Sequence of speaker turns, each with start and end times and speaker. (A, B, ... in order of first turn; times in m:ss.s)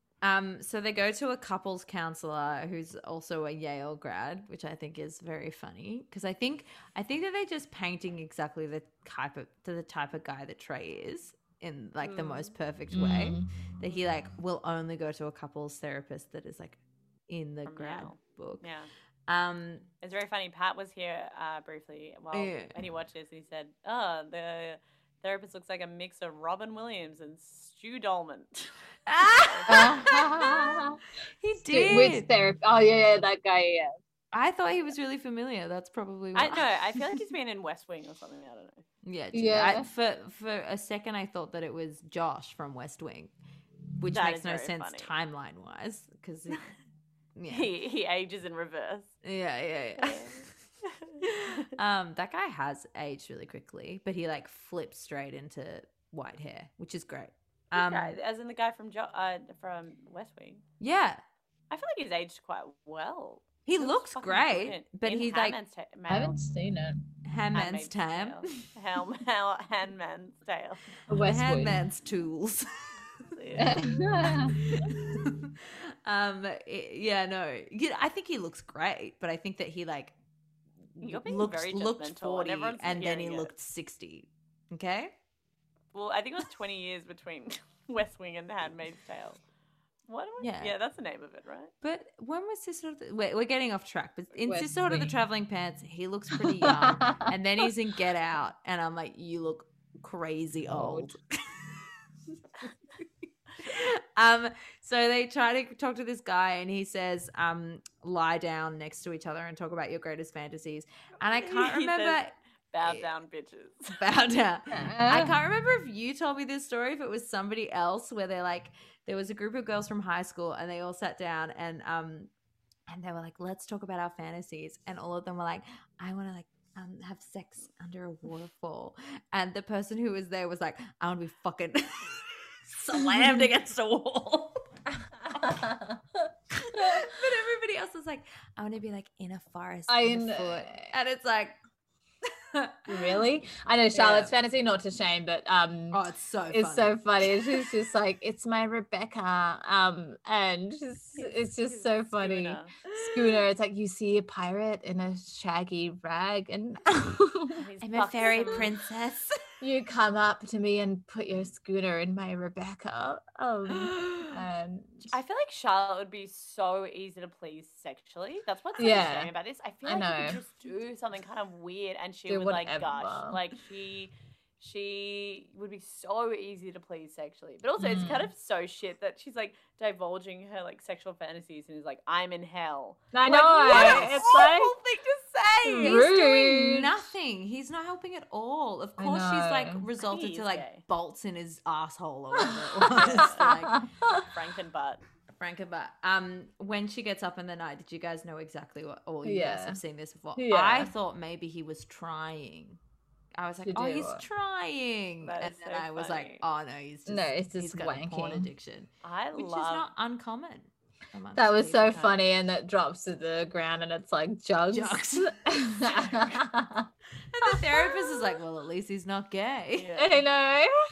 0:00.2-0:18.6 A
0:12.0-0:12.5 B
0:12.9-0:13.5 C
0:17.7-0:18.9 B
0:19.3-0:19.9 A
0:20.0-0:30.0 B
0:22.3-0:22.8 A
0:29.1-0:30.8 A
0:29.7-0:31.0 C
0:31.4-0:32.3 A
0:31.6-0:34.0 C
0:34.3-0:37.0 A
0:36.4-0:38.8 B
0:39.0-0:43.3 A
0:39.3-0:39.9 C
0:44.0-0:46.6 A
0:44.1-0:45.1 B
0:47.4-0:47.7 A
0:47.5-0:49.1 B
0:49.2-0:50.3 A
0:50.0-0:51.5 B
0:51.2-0:58.2 A
0:57.7-1:00.6 B
1:00.8-1:01.2 A
1:01.7-1:06.4 B
1:03.6-1:05.6 A
1:06.1-1:07.0 C
1:07.2-1:08.7 A
1:07.5-1:10.8 B
1:11.1-1:11.8 C
1:11.1-1:12.9 A
1:13.3-1:13.9 B
1:13.6-1:14.9 C
1:14.3-1:20.1 A
1:21.0-1:25.1 A
1:21.0-1:23.5 B
1:25.9-1:29.4 B
1:30.1-1:31.7 B
1:30.4-1:30.7 A
1:31.8-1:41.6 A
1:34.4-1:35.1 C
1:36.3-1:37.3 C
1:40.7-1:41.1 C
1:43.6-1:53.1 A
1:51.2-1:54.0 B
1:54.0-2:02.3 A
1:54.7-1:55.4 C
2:02.9-2:14.6 A
2:15.2-2:17.1 C
2:16.5-2:21.5 A
2:19.9-2:20.9 C
2:22.5-2:23.2 A
2:22.9-2:37.6 C
2:23.9-2:24.3 A
2:25.9-2:27.6 A
2:31.2-2:32.7 B
2:32.9-2:33.4 A
2:37.5-2:38.7 B
2:37.8-2:39.4 A
2:38.3-2:38.7 C
2:39.6-2:45.1 C
2:45.1-3:04.2 B
2:48.8-2:49.3 C
2:49.8-2:50.4 C
2:52.3-2:53.4 C
2:57.8-2:58.3 C
3:03.1-3:04.7 C
3:03.3-3:13.8 A
3:05.6-3:07.1 C
3:05.7-3:06.1 B
3:09.0-3:09.8 C
3:10.0-3:10.8 B
3:12.4-3:14.3 C
3:12.9-3:13.5 B
3:14.1-3:15.0 B
3:15.3-3:22.8 A
3:19.2-3:19.8 C
3:20.4-3:20.9 C
3:23.4-3:32.1 A
3:23.6-3:24.2 C
3:25.2-3:26.4 B
3:27.1-3:28.5 C
3:29.0-3:29.9 B
3:31.4-3:36.9 C
3:34.7-3:36.4 A
3:37.3-3:39.9 A
3:37.4-3:38.4 C
3:39.7-3:40.2 B
3:40.0-3:40.7 C